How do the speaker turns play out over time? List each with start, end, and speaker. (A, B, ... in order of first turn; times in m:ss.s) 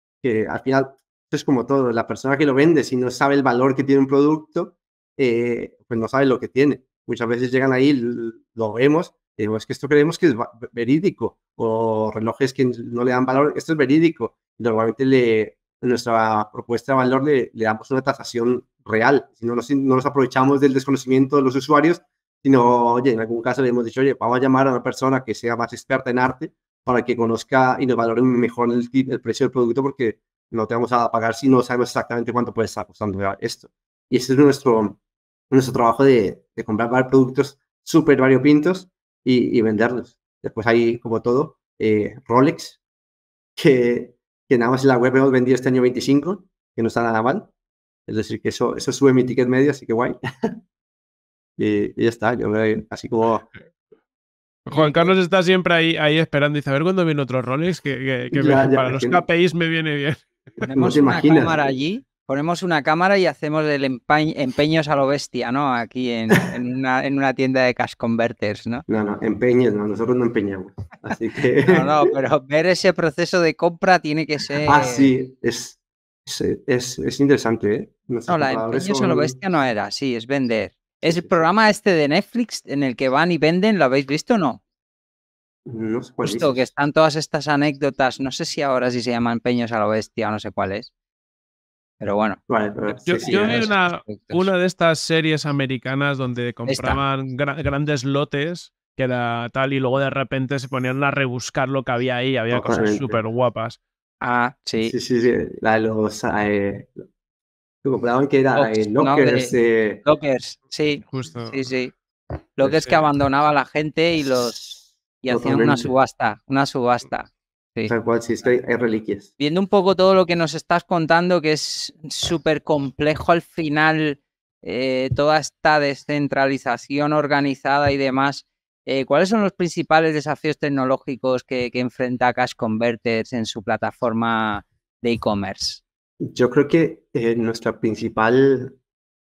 0:00.2-0:35.0 A
0:35.5-0:42.8 A
0:43.6-0:47.5 A
0:48.1-0:50.6 A
0:51.6-0:53.5 A
0:54.7-1:00.7 B
0:54.7-0:55.1 C
0:58.3-0:59.2 A
1:00.6-1:01.6 A
1:00.7-1:08.8 C
1:08.9-1:12.1 A
1:11.6-1:15.1 C
1:14.6-1:19.4 A
1:18.3-1:24.6 C
1:21.0-1:21.4 A
1:25.7-1:26.7 A
1:26.2-1:30.9 C
1:32.0-1:32.4 C
1:32.5-1:33.7 A
1:33.0-1:43.8 B
1:33.2-1:34.5 C
1:36.7-1:37.0 C
1:42.5-1:43.2 A
1:44.2-1:44.9 C
1:44.8-1:47.0 A
1:47.8-1:50.0 A
1:48.6-1:51.9 C
1:51.1-1:51.6 B
1:52.6-1:54.7 C
1:54.4-1:56.0 A
1:55.2-1:57.9 C
1:57.9-1:59.3 A
1:59.4-2:15.8 C
2:16.2-2:18.8 A